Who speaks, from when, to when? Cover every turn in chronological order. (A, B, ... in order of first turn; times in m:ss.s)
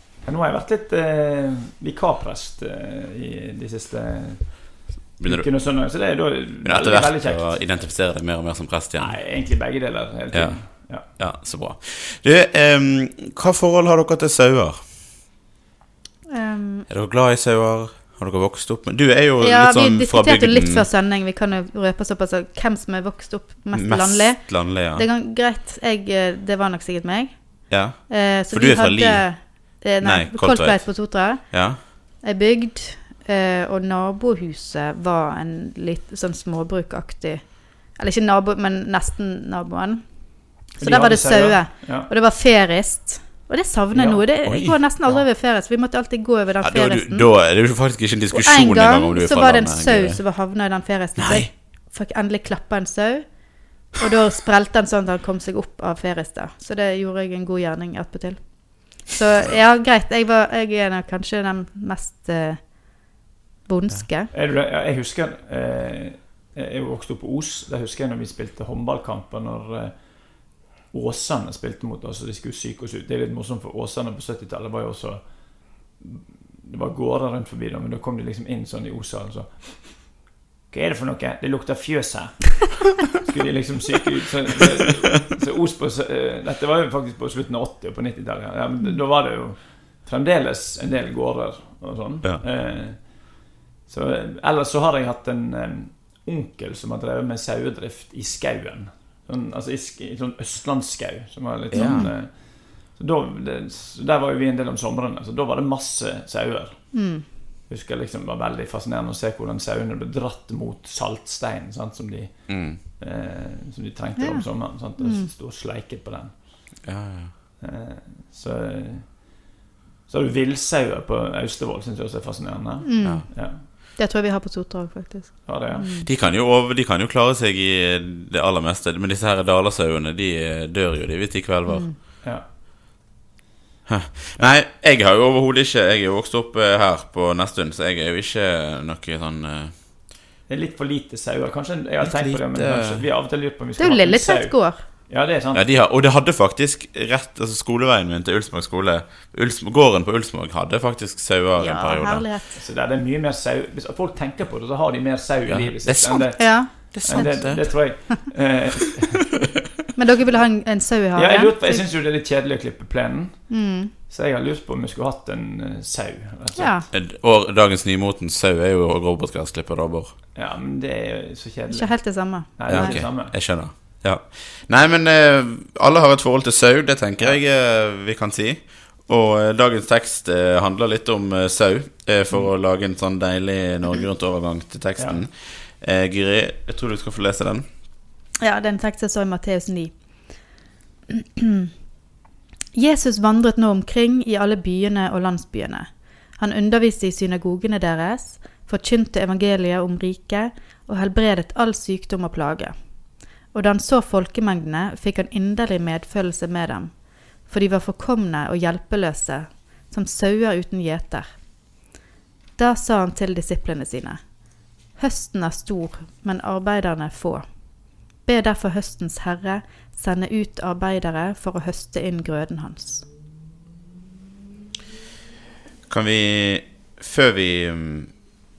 0:00.2-0:07.7 A
0:05.2-0:05.5 B
0:06.6-0:09.4 B
0:09.0-0:11.1 A
0:10.3-0:14.8 B
0:16.3-0:16.9 C
0:16.9-0:20.9 B
0:19.4-0:47.4 C
0:23.7-0:25.1 B
0:27.7-0:31.8 B
0:40.8-0:42.1 A
0:43.9-0:44.4 A
0:44.4-0:44.8 B
0:46.6-0:50.4 B
0:48.3-1:04.3 C
0:51.2-0:51.5 B
1:04.3-1:47.2 A
1:41.7-1:42.1 B
1:41.7-1:42.1 C
1:46.9-1:47.3 C
1:47.7-1:56.7 A
1:52.5-1:52.8 B
1:54.2-1:55.3 C
1:56.8-1:57.3 B
1:57.6-1:59.4 A
2:00.1-2:03.6 A
2:02.8-2:06.1 C
2:03.0-2:03.3 B
2:05.5-2:05.9 A
2:05.9-2:11.9 B
2:11.7-2:12.0 C
2:13.9-2:19.7 B
2:20.5-2:25.7 A
2:22.0-2:23.1 B
2:23.8-2:24.9 C
2:25.5-2:32.3 B
2:31.6-2:32.6 C
2:32.6-2:39.2 A
2:35.5-2:38.1 B
2:36.4-2:38.1 C
2:39.9-2:41.9 C
2:41.1-2:46.9 A
2:43.5-2:43.9 C
2:46.6-2:46.9 C
2:46.9-2:50.2 B
2:50.4-2:53.4 A
2:51.7-2:53.0 C
2:52.7-3:07.6 B
3:05.0-3:05.2 A
3:08.4-3:10.5 C
3:11.1-3:11.7 C
3:12.7-3:31.4 C
3:32.6-3:43.1 C
3:45.9-3:48.4 B